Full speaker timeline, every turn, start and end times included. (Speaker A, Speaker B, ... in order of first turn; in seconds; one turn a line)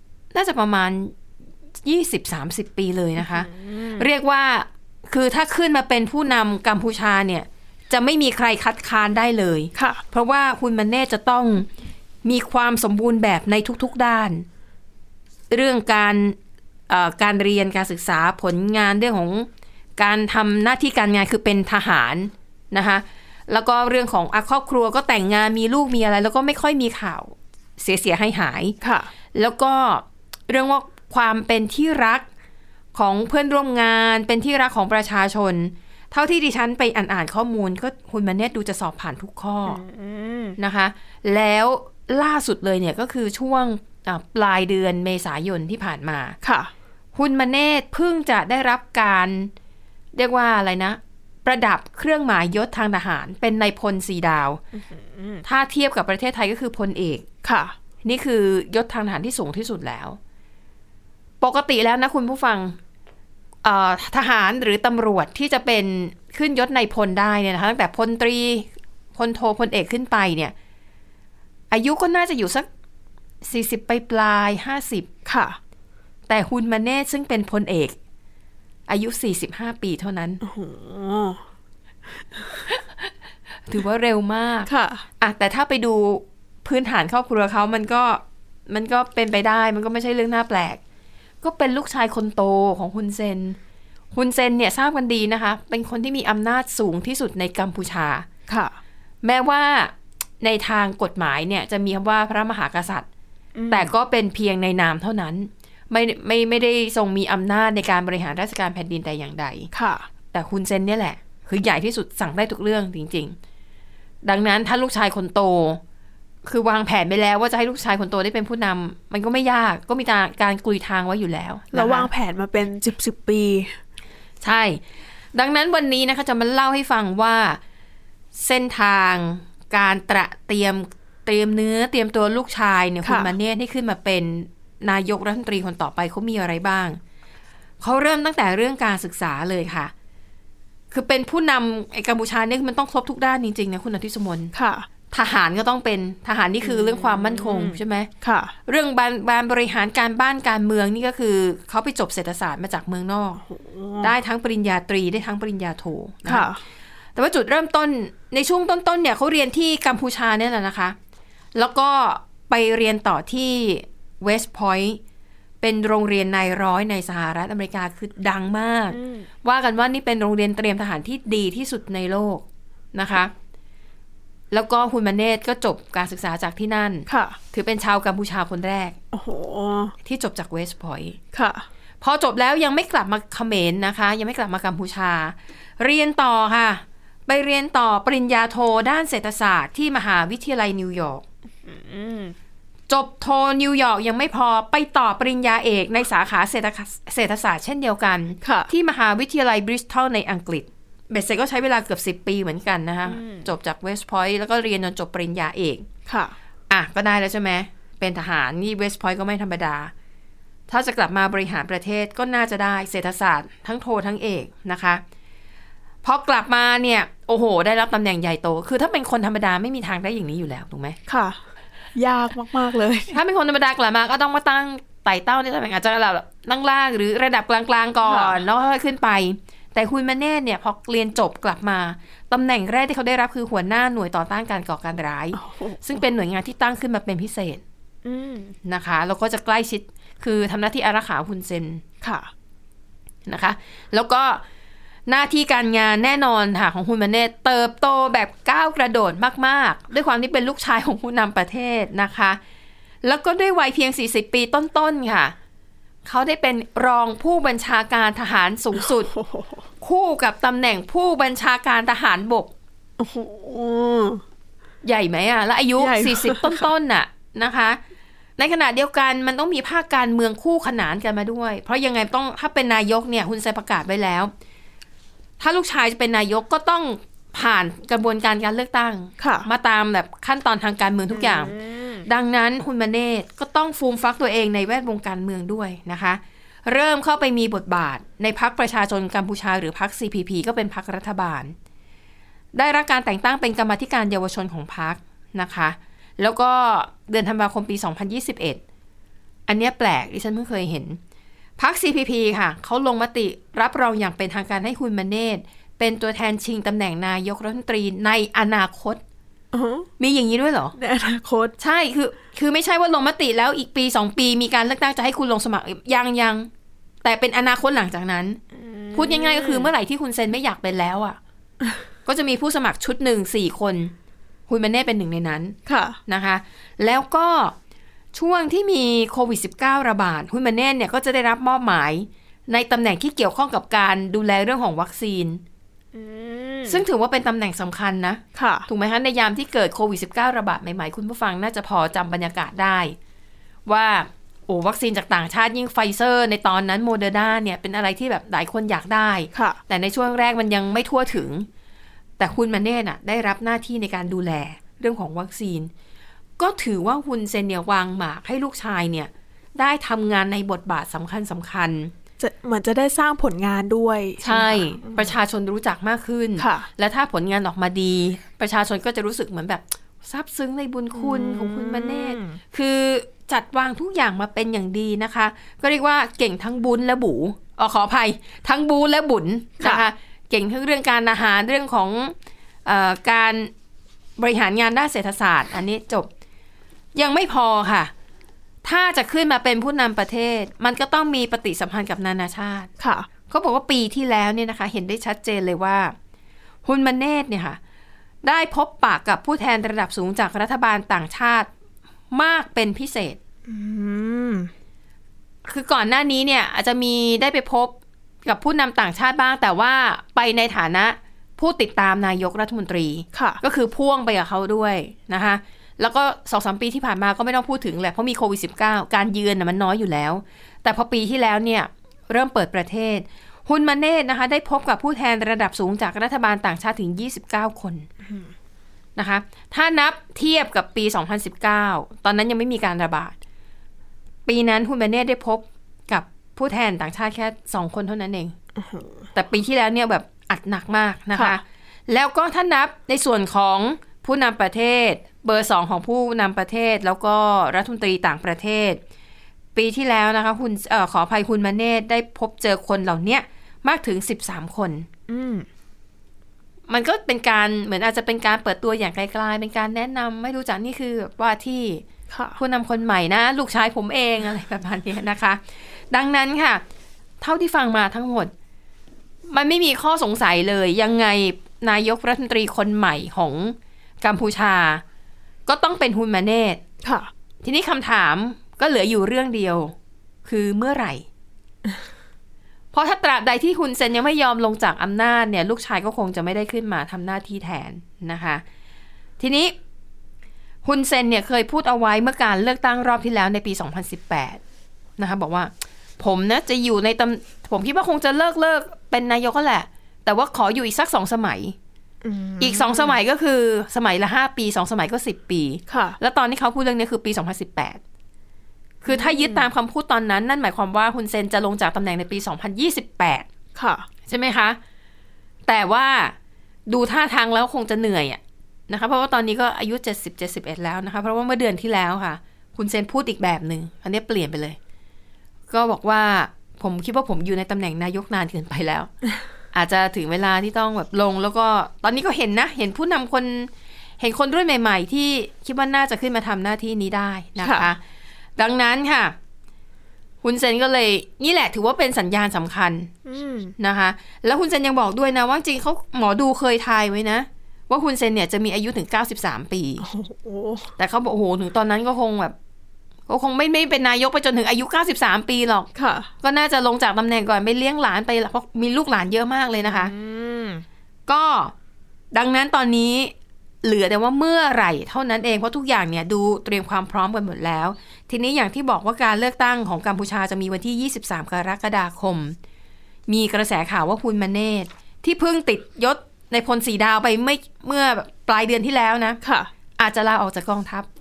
Speaker A: 0.3-1.1
Speaker A: 1.8-11.7
Speaker B: 3.4-4.1
Speaker B: 9.8-10.0
Speaker A: 12.2-14.5
Speaker A: 15.5-16.4
Speaker A: 16.9-28.8
Speaker B: 28.8-29.1
Speaker A: 29.3-32.3
Speaker A: 32.9-39.8
Speaker B: 39.7-40.5
Speaker A: 40.6-46.4
Speaker B: 46.4-46.7
Speaker A: 47.1-49.5
Speaker A: 50.1-54.6
Speaker B: 55.1-55.4
Speaker A: 55.4-57.2
Speaker B: 57.4-57.7
Speaker A: 58.0-60.2
Speaker A: 61.4-62.8
Speaker A: 63.6-70.5
Speaker A: 71.7-72.7
Speaker A: 73.4-75.1
Speaker B: 75.3-75.6
Speaker A: 76.3-78.0
Speaker A: 78.9-80.4
Speaker B: 80.4-81.4
Speaker A: 82.6-83.1
Speaker A: 83.7-84.7
Speaker B: 84.7-85.0
Speaker A: 85.2-90.8
Speaker A: 91.4-93.6
Speaker A: 94.1-98.3
Speaker B: 98.5-98.8
Speaker A: 99.2-103.1
Speaker B: 103.5-103.9
Speaker A: 103.7-109.7
Speaker B: 109.7-110.1
Speaker A: 110.3-113.4
Speaker A: 114.2-115.8
Speaker A: 116.5-122.1
Speaker B: 121.7-123.7
Speaker A: 124.4-124.8
Speaker A: 125.3-127.6
Speaker A: 128.3-137.0
Speaker B: 133.0-133.3
Speaker A: 137.8-139.9
Speaker A: 140.9-144.5
Speaker B: 144.5-144.9
Speaker A: 145.1-148.1
Speaker B: 146.7-148.5
Speaker A: 148.7-153.4
Speaker B: 153.5-154.1
Speaker A: 154.0-156.5
Speaker B: 156.3-156.6
Speaker A: 157.2-161.0
Speaker A: 161.6-165.0
Speaker A: 165.6-173.3
Speaker B: 168.9-169.2
Speaker A: 174.5-179.0
Speaker B: 177.1-177.4
Speaker B: 179.1-179.9
Speaker A: 180.0-181.2
Speaker B: 181.3-181.7
Speaker A: 182.0-191.2
Speaker B: 191.7-192.3
Speaker A: 192.9-205.9
Speaker B: 198.4-198.7
Speaker B: 203.1-203.4
Speaker B: 206.1-206.3
Speaker A: 206.7-209.9
Speaker A: 210.7-215.0
Speaker A: 216.0-221.0
Speaker B: 221.1-221.4
Speaker B: 221.9-223.2
Speaker A: 223.1-237.6
Speaker B: 228.1-228.4
Speaker B: 235.4-236.0
Speaker B: 238.1-238.5
Speaker A: 238.7-241.8
Speaker B: 242.0-242.3
Speaker A: 243.3-244.4
Speaker A: 245.1-252.4
Speaker A: 253.0-255.3
Speaker A: 256.1-259.1
Speaker B: 258.8-259.6
Speaker A: 259.8-262.5
Speaker B: 263.0-264.2
Speaker A: 264.8-267.8
Speaker B: 265.8-266.7
Speaker A: 268.4-274.3
Speaker A: 275.4-291.6
Speaker B: 279.2-279.5
Speaker B: 281.1-282.0
Speaker A: 292.5-298.6
Speaker A: 299.5-301.0
Speaker A: 301.6-309.0
Speaker B: 309.5-309.9
Speaker A: 310.0-310.8
Speaker B: 310.8-311.5
Speaker A: 311.6-316.5
Speaker A: 317.0-318.4
Speaker B: 318.7-319.7
Speaker A: 318.9-321.2
Speaker A: 322.1-323.9
Speaker A: 324.5-325.6
Speaker B: 325.7-326.0
Speaker A: 326.1-327.6
Speaker A: 328.1-335.4
Speaker B: 335.9-336.8
Speaker A: 336.6-343.0
Speaker B: 338.4-338.7
Speaker A: 343.7-351.5
Speaker B: 349.3-349.6
Speaker A: 352.2-355.7
Speaker A: 356.4-361.9
Speaker B: 362.2-365.1
Speaker A: 364.2-383.5
Speaker B: 366.4-366.7
Speaker B: 370.9-372.4
Speaker B: 379.6-379.9
Speaker A: 384.2-386.1
Speaker A: 386.9-387.9
Speaker A: 388.6-392.7
Speaker B: 392.8-393.1
Speaker A: 393.3-396.0
Speaker A: 396.6-397.6
Speaker A: 398.2-401.5
Speaker A: 402.1-403.2
Speaker B: 403.5-404.5
Speaker A: 405.5-427.9
Speaker B: 413.1-413.4
Speaker A: 429.0-433.1
Speaker A: 434.3-438.4
Speaker B: 438.6-438.9
Speaker A: 439.1-448.8
Speaker A: 449.6-454.9
Speaker B: 455.1-455.5
Speaker A: 456.7-461.8
Speaker B: 462.1-462.4
Speaker A: 462.4-465.4
Speaker A: 465.9-466.6
Speaker A: 467.2-468.3
Speaker A: 469.3-474.8
Speaker A: 475.5-476.6
Speaker B: 476.8-477.1
Speaker A: 477.4-481.1
Speaker A: 482.7-488.4
Speaker A: 489.2-489.6
Speaker A: 490.6-494.4
Speaker A: 495.0-501.6
Speaker B: 502.0-503.0
Speaker A: 502.4-507.8
Speaker B: 505.7-506.0
Speaker A: 508.8-513.3
Speaker B: 508.9-509.4
Speaker B: 513.6-513.9
Speaker A: 514.1-514.6
Speaker A: 515.5-516.1
Speaker A: 516.7-524.6
Speaker A: 525.5-528.9
Speaker A: 529.5-537.8
Speaker B: 537.4-537.7
Speaker A: 538.4-539.2
Speaker A: 540.2-542.9
Speaker B: 543.1-543.5
Speaker A: 543.6-549.9
Speaker B: 549.8-550.7
Speaker A: 550.8-552.4
Speaker A: 553.1-555.7
Speaker B: 555.8-556.1
Speaker A: 556.2-559.9
Speaker B: 559.6-560.6
Speaker A: 561.1-561.5
Speaker A: 562.1-572.4
Speaker A: 573.1-579.2
Speaker B: 579.2-579.5
Speaker A: 579.8-580.9